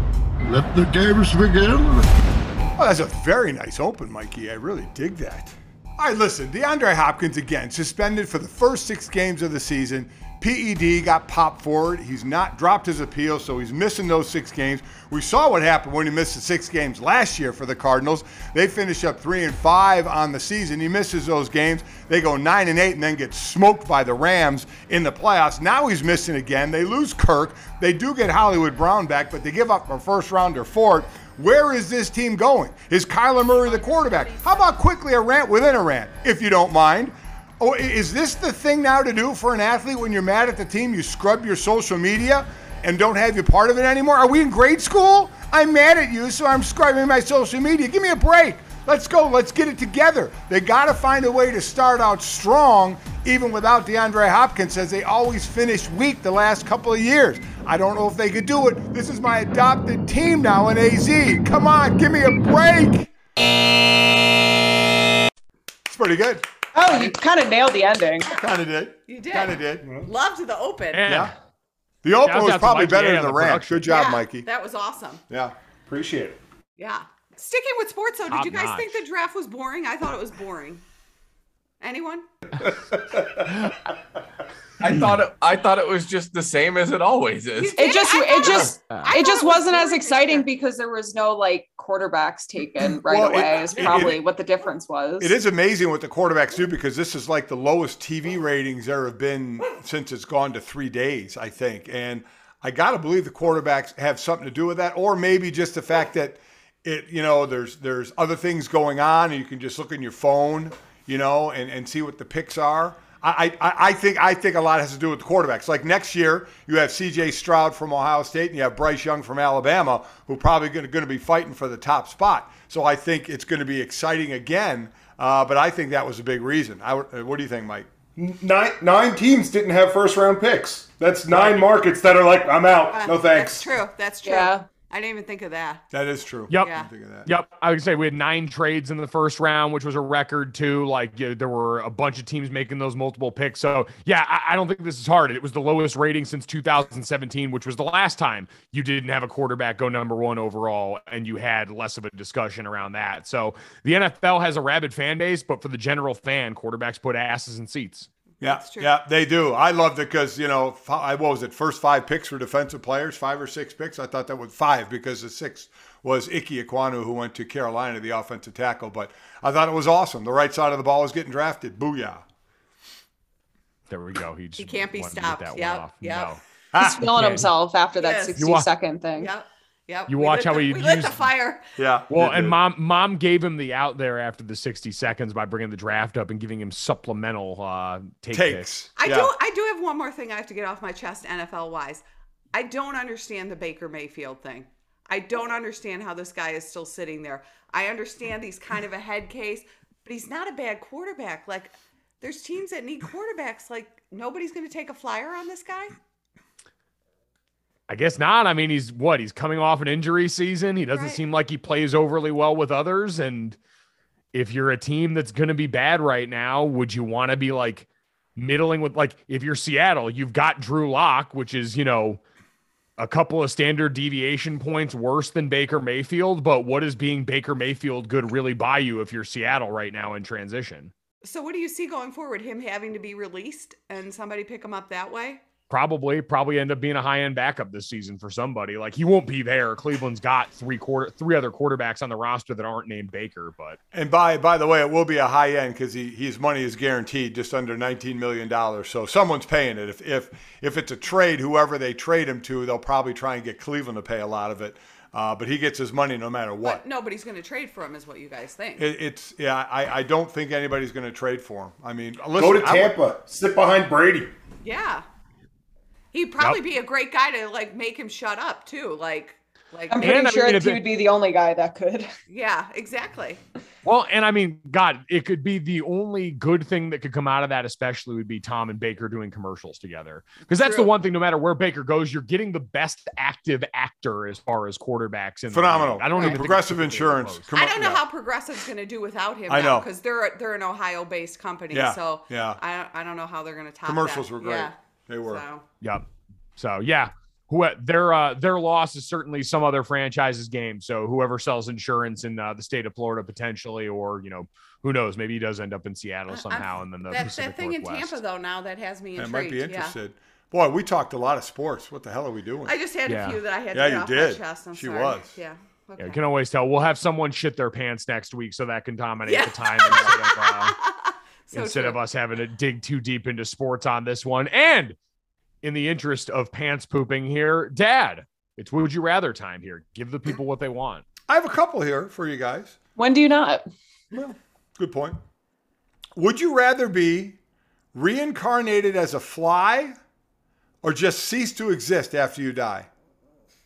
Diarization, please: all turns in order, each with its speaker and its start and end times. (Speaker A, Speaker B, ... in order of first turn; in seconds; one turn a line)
Speaker A: 2.8-63.1
Speaker B: 33.6-34.7
Speaker A: 65.9-66.4
Speaker C: 66.7-68.3
Speaker A: 68.2-69.8
Speaker B: 69.1-71.1
Speaker D: 69.8-70.1
Speaker E: 70.9-71.3
Speaker A: 71.1-71.3
Speaker A: 72.0-74.5
Speaker E: 72.2-73.9
Speaker B: 73.9-75.2
Speaker A: 75.3-75.5
Speaker D: 75.9-76.4
Speaker B: 76.8-80.8
Speaker E: 78.3-79.0
Speaker B: 81.8-82.2
Speaker D: 82.6-83.5
Speaker F: 84.8-87.8
Speaker B: 87.6-90.5
Speaker C: 87.8-95.4
Speaker A: 93.0-94.2
Speaker E: 93.8-94.0
Speaker A: 95.2-127.9
Speaker D: 128.2-133.7
Speaker E: 131.3-131.7
Speaker B: 132.9-135.8
Speaker C: 134.2-134.7
Speaker A: 135.9-137.3
Speaker B: 136.6-136.9
Speaker E: 137.2-158.1
Speaker A: 158.4-172.2
Speaker B: 158.4-158.9
Speaker E: 173.9-176.4
Speaker B: 174.6-176.3
Speaker A: 176.7-177.4
Speaker C: 176.8-179.3
Speaker E: 177.2-177.5
Speaker B: 177.9-178.4
Speaker E: 178.4-178.7
Speaker B: 179.2-181.6
Speaker E: 180.1-181.2
Speaker A: 181.8-182.6
Speaker E: 182.1-188.7
Speaker A: 188.3-189.3
Speaker B: 189.0-205.9
Speaker E: 207.9-213.6
Speaker B: 210.9-211.2
Speaker E: 214.3-222.2
Speaker E: 223.0-230.9
Speaker B: 231.2-235.4
Speaker E: 235.7-243.8
Speaker A: 243.9-256.8
Speaker B: 256.6-258.9
Speaker A: 258.8-262.9
Speaker D: 262.3-264.3
Speaker B: 264.6-265.0
Speaker B: 266.1-270.0
Speaker C: 269.9-272.1
Speaker E: 270.0-270.8
Speaker B: 272.3-273.4
Speaker E: 273.8-287.5
Speaker B: 280.5-280.9
Speaker A: 285.5-288.0
Speaker B: 287.5-295.6
Speaker A: 289.5-289.9
Speaker A: 291.7-292.6
Speaker A: 293.9-295.4
Speaker E: 296.6-308.2
Speaker B: 306.3-309.9
Speaker A: 309.1-312.7
Speaker B: 312.6-316.2
Speaker E: 313.1-313.4
Speaker A: 313.7-315.4
Speaker E: 316.0-320.7
Speaker B: 319.2-322.0
Speaker E: 321.5-324.9
Speaker E: 325.6-331.0
Speaker A: 331.3-332.8
Speaker C: 332.9-333.6
Speaker A: 334.1-335.2
Speaker A: 336.2-337.4
Speaker A: 337.9-339.9
Speaker A: 340.8-342.9